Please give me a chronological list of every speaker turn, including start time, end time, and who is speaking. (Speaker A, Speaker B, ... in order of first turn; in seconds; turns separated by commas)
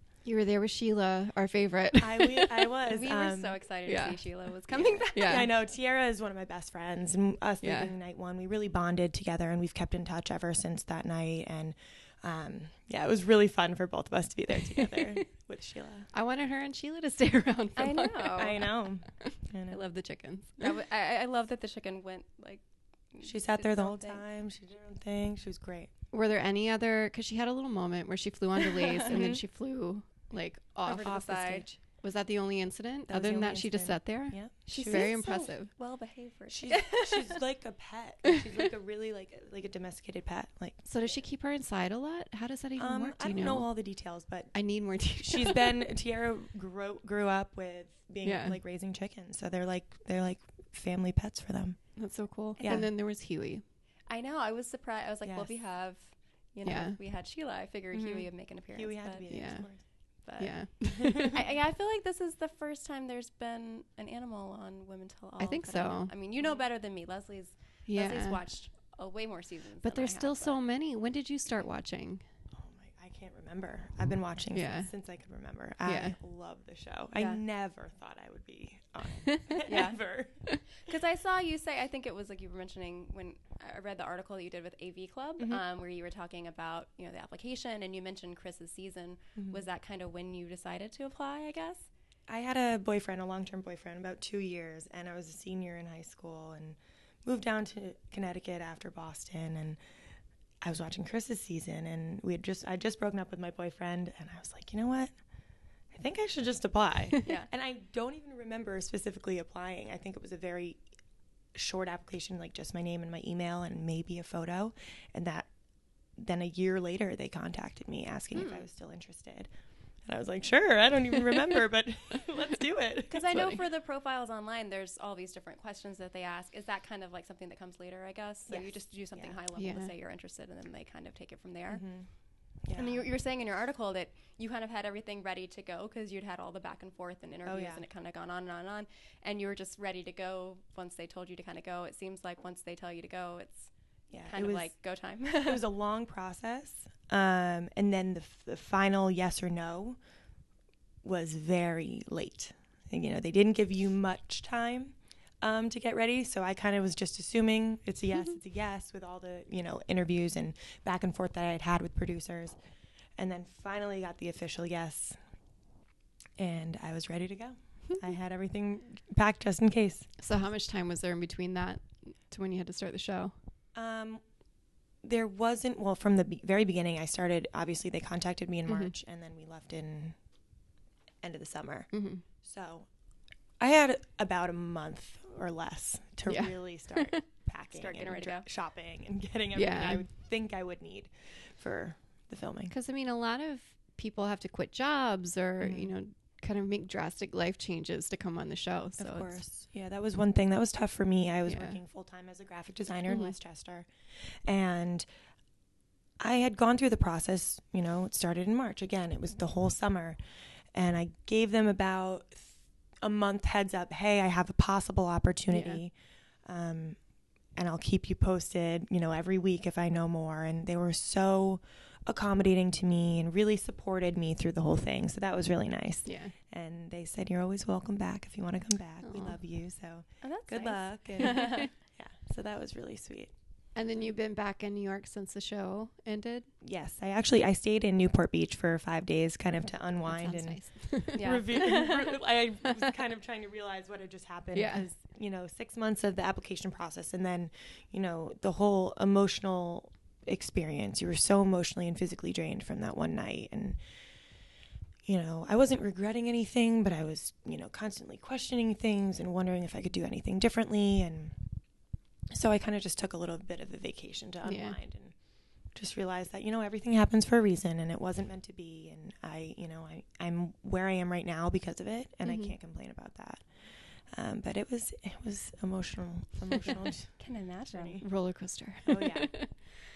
Speaker A: 0.2-2.7, Speaker B: 2.0-3.6, Speaker C: 2.9-5.5, Speaker A: 3.9-4.2, Speaker B: 4.7-16.1, Speaker A: 5.2-5.5, Speaker A: 7.6-7.9, Speaker A: 14.8-15.2, Speaker A: 16.1-18.6, Speaker C: 17.8-18.6, Speaker B: 18.3-19.8, Speaker A: 19.2-20.8, Speaker C: 20.6-24.2, Speaker B: 23.2-25.9, Speaker A: 26.1-35.7, Speaker C: 28.8-29.4, Speaker B: 29.1-29.4, Speaker C: 30.8-31.6, Speaker B: 31.3-31.8, Speaker B: 33.1-35.1, Speaker C: 34.7-37.4, Speaker B: 36.5-41.2, Speaker A: 40.9-43.7, Speaker B: 42.8-44.5, Speaker A: 44.5-45.9, Speaker B: 45.1-51.8, Speaker A: 48.2-48.6, Speaker A: 52.0-53.6, Speaker B: 52.6-52.9, Speaker C: 54.1-59.3, Speaker B: 55.2-55.5, Speaker A: 56.6-57.0, Speaker B: 57.9-59.8, Speaker A: 59.3-59.7, Speaker C: 60.2-70.6, Speaker A: 60.4-61.4, Speaker B: 60.9-61.4, Speaker A: 65.4-66.1, Speaker A: 67.9-68.4, Speaker A: 69.8-72.2, Speaker B: 72.5-80.5, Speaker A: 74.5-74.9, Speaker A: 75.8-76.2, Speaker C: 77.2-77.4, Speaker A: 79.3-79.6, Speaker C: 79.7-80.0, Speaker C: 80.8-91.9, Speaker B: 92.3-99.8, Speaker B: 100.6-105.1, Speaker B: 105.9-110.8, Speaker B: 111.5-115.5, Speaker B: 116.2-119.5, Speaker C: 118.3-118.7, Speaker B: 120.1-123.6, Speaker C: 123.1-131.8, Speaker A: 123.3-123.6, Speaker B: 128.5-129.4, Speaker A: 129.6-129.9, Speaker B: 131.7-132.1, Speaker B: 132.6-133.1, Speaker C: 132.8-143.7, Speaker B: 137.5-137.8, Speaker B: 144.1-144.7, Speaker C: 144.3-145.6, Speaker B: 145.4-150.0, Speaker B: 151.0-162.6, Speaker B: 163.2-165.2, Speaker B: 166.4-170.1, Speaker A: 170.2-173.3, Speaker B: 173.8-174.2, Speaker B: 175.0-180.2, Speaker A: 178.7-178.9, Speaker B: 181.2-181.9, Speaker A: 181.9-182.2, Speaker B: 182.4-182.9, Speaker B: 183.6-192.7, Speaker A: 186.3-187.2, Speaker C: 187.7-188.5, Speaker A: 189.6-190.1, Speaker A: 192.7-199.4, Speaker B: 195.6-195.9, Speaker B: 199.0-203.9, Speaker A: 201.5-201.8, Speaker A: 203.1-203.3, Speaker B: 204.4-205.1, Speaker B: 206.2-210.2, Speaker B: 210.7-215.9, Speaker A: 215.5-215.8, Speaker B: 216.4-217.0, Speaker B: 217.6-233.3, Speaker A: 226.1-226.3, Speaker A: 229.0-229.4, Speaker C: 230.2-231.7, Speaker A: 231.2-231.7, Speaker A: 233.8-236.5, Speaker B: 236.6-253.8, Speaker A: 240.1-241.3, Speaker C: 241.2-242.2, Speaker A: 244.6-244.8, Speaker B: 255.1-261.4, Speaker B: 262.3-265.1, Speaker A: 264.4-264.8, Speaker B: 265.8-273.5, Speaker A: 272.2-272.5, Speaker B: 274.1-277.1, Speaker C: 277.2-278.0, Speaker B: 277.7-278.1, Speaker A: 278.0-279.5, Speaker B: 278.9-279.3